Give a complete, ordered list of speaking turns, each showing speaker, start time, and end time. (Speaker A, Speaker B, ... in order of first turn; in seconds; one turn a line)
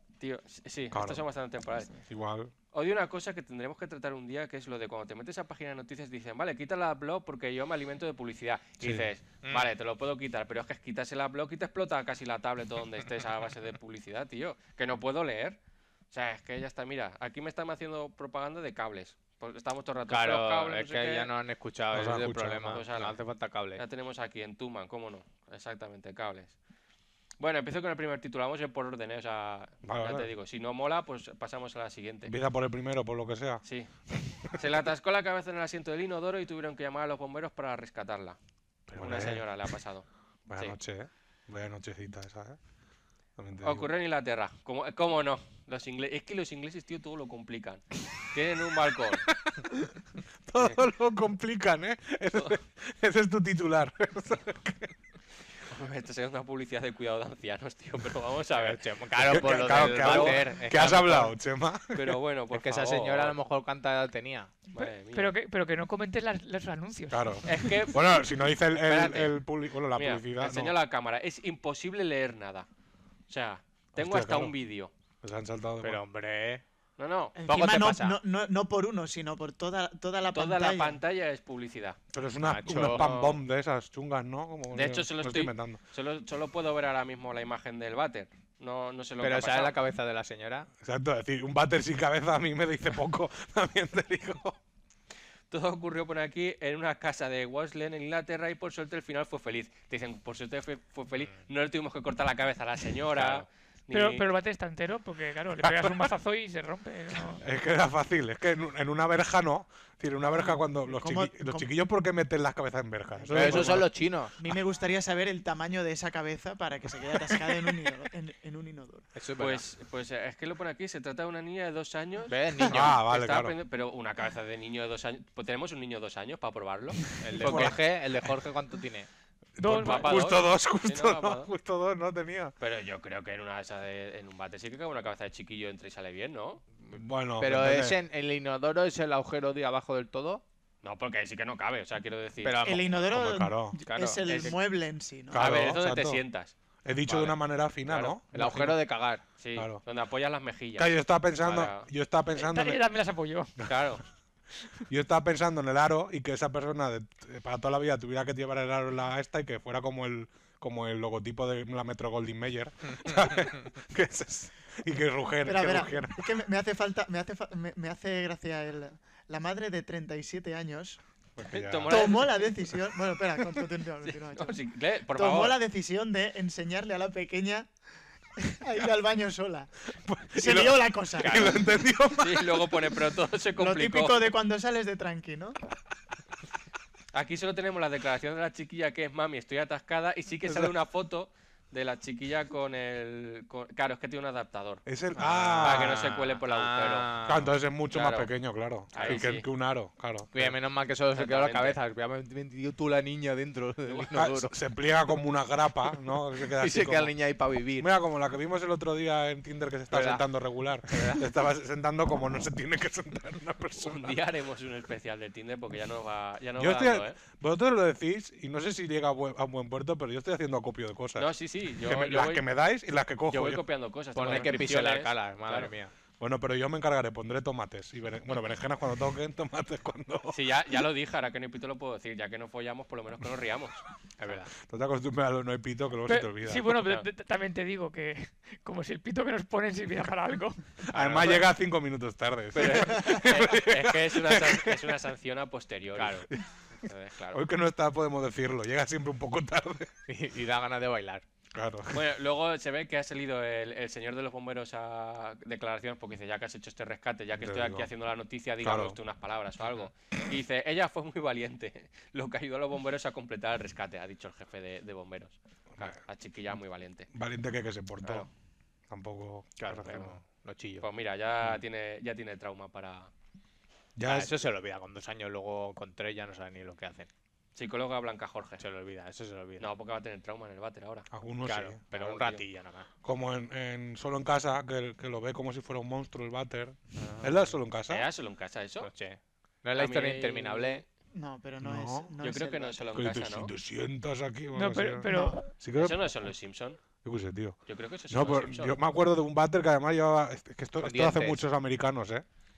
Speaker A: 0.2-1.9
Speaker B: 0.9-1.3
Speaker B: 2.1-2.5
Speaker A: 2.7-15.6
Speaker B: 8.8-9.1
Speaker A: 16.1-21.3
Speaker C: 20.1-23.8
Speaker B: 21.9-22.8
Speaker A: 22.6-23.2
Speaker A: 23.8-26.6
Speaker A: 27.4-32.3
Speaker B: 29.8-30.3
Speaker B: 32.3-33.6
Speaker A: 33.6-33.9
Speaker A: 34.5-38.4
Speaker B: 38.9-39.8
Speaker A: 39.0-40.8
Speaker B: 40.5-42.6
Speaker B: 43.4-43.9
Speaker A: 43.6-49.3
Speaker B: 49.3-49.6
Speaker B: 50.5-54.9
Speaker A: 55.7-60.5
Speaker C: 58.5-61.4
Speaker B: 59.2-62.2
Speaker A: 61.9-63.4
Speaker C: 62.5-64.5
Speaker A: 64.7-65.3
Speaker D: 64.8-67.8
Speaker B: 67.1-70.8
Speaker A: 67.5-69.4
Speaker A: 69.9-72.7
Speaker A: 73.3-74.9
Speaker B: 73.9-74.5
Speaker B: 75.2-76.0
Speaker C: 75.8-76.6
Speaker A: 77.0-77.4
Speaker E: 77.4-81.0
Speaker C: 77.5-78.2
Speaker A: 80.3-82.0
Speaker B: 82.1-85.8
Speaker C: 82.4-83.1
Speaker A: 82.7-83.4
Speaker A: 84.7-89.8
Speaker C: 89.2-90.7
Speaker B: 90.8-94.6
Speaker A: 95.5-104.3
Speaker D: 103.9-107.4
Speaker B: 105.6-106.1
Speaker B: 107.4-113.9
Speaker E: 110.7-111.7
Speaker E: 113.2-113.9
Speaker C: 113.3-114.3
Speaker E: 114.4-119.1
Speaker B: 117.2-117.6
Speaker C: 119.2-119.6
Speaker A: 119.4-127.8
Speaker C: 122.3-122.9
Speaker B: 122.7-123.6
Speaker C: 127.2-129.1
Speaker B: 127.3-127.8
Speaker B: 129.6-132.5
Speaker D: 129.6-130.2
Speaker A: 129.8-131.5
Speaker A: 132.6-136.6
Speaker C: 136.8-140.4
Speaker B: 136.9-138.0
Speaker A: 140.8-142.6
Speaker C: 142.4-143.0
Speaker E: 142.6-145.5
Speaker B: 143.1-143.8
Speaker C: 143.8-144.6
Speaker B: 145.3-146.2
Speaker A: 145.3-146.5
Speaker B: 146.8-148.8
Speaker C: 147.1-147.4
Speaker A: 147.9-148.2
Speaker C: 148.3-149.2
Speaker A: 149.4-151.9
Speaker B: 149.6-149.8
Speaker B: 150.8-152.8
Speaker D: 152.3-153.6
Speaker A: 153.7-154.0
Speaker B: 154.9-166.2
Speaker E: 165.4-171.0
Speaker B: 171.4-172.2
Speaker A: 171.5-172.5
Speaker E: 171.9-174.6
Speaker A: 174.0-175.6
Speaker E: 175.1-177.7
Speaker E: 178.4-179.7
Speaker B: 180.0-183.1
Speaker E: 180.3-181.6
Speaker A: 182.2-184.3
Speaker E: 183.6-185.6
Speaker A: 187.1-194.8
Speaker B: 190.4-190.7
Speaker B: 194.9-196.0
Speaker C: 195.2-197.6
Speaker A: 195.6-197.1
Speaker B: 197.3-200.5
Speaker A: 197.9-198.3
Speaker A: 198.9-199.5
Speaker C: 199.0-199.2
Speaker C: 200.3-204.6
Speaker A: 201.1-201.8
Speaker B: 204.1-207.1
Speaker C: 206.5-207.9
Speaker B: 207.8-214.2
Speaker C: 209.9-210.3
Speaker C: 210.8-211.3
Speaker A: 213.8-217.2
Speaker B: 216.6-221.3
Speaker A: 221.2-222.4
Speaker B: 221.8-223.6
Speaker A: 223.3-225.7
Speaker C: 224.2-225.9
Speaker B: 224.2-224.6
Speaker B: 226.2-230.4
Speaker A: 230.3-234.3
Speaker C: 234.2-234.5
Speaker B: 234.6-236.8
Speaker D: 236.1-240.8
Speaker C: 240.9-241.4
Speaker B: 240.9-244.8
Speaker A: 242.5-247.4
Speaker C: 246.0-246.3
Speaker B: 247.3-249.9
Speaker C: 250.1-251.2
Speaker B: 251.5-252.0
Speaker A: 251.9-267.1
Speaker B: 257.4-257.9
Speaker B: 258.6-259.0
Speaker B: 267.1-268.3
Speaker A: 268.0-268.3
Speaker B: 268.9-270.1
Speaker C: 269.6-270.9
Speaker A: 270.8-273.1
Speaker B: 274.0-274.4
Speaker C: 274.1-277.1
Speaker A: 277.6-278.6
Speaker C: 278.6-279.7
Speaker A: 279.6-281.1
Speaker B: 281.1-281.8
Speaker C: 281.4-282.9
Speaker A: 281.9-282.4
Speaker B: 283.0-288.1
Speaker C: 287.0-287.6
Speaker A: 287.9-288.9
Speaker C: 288.8-290.8
Speaker A: 289.8-290.9
Speaker E: 291.1-292.8
Speaker B: 291.6-292.1
Speaker A: 292.2-293.5
Speaker B: 292.9-296.3
Speaker D: 294.5-295.5
Speaker E: 295.1-295.4
Speaker A: 295.8-296.8
Speaker B: 297.0-297.6
Speaker A: 297.7-298.8
Speaker B: 298.1-302.2
Speaker C: 300.8-301.4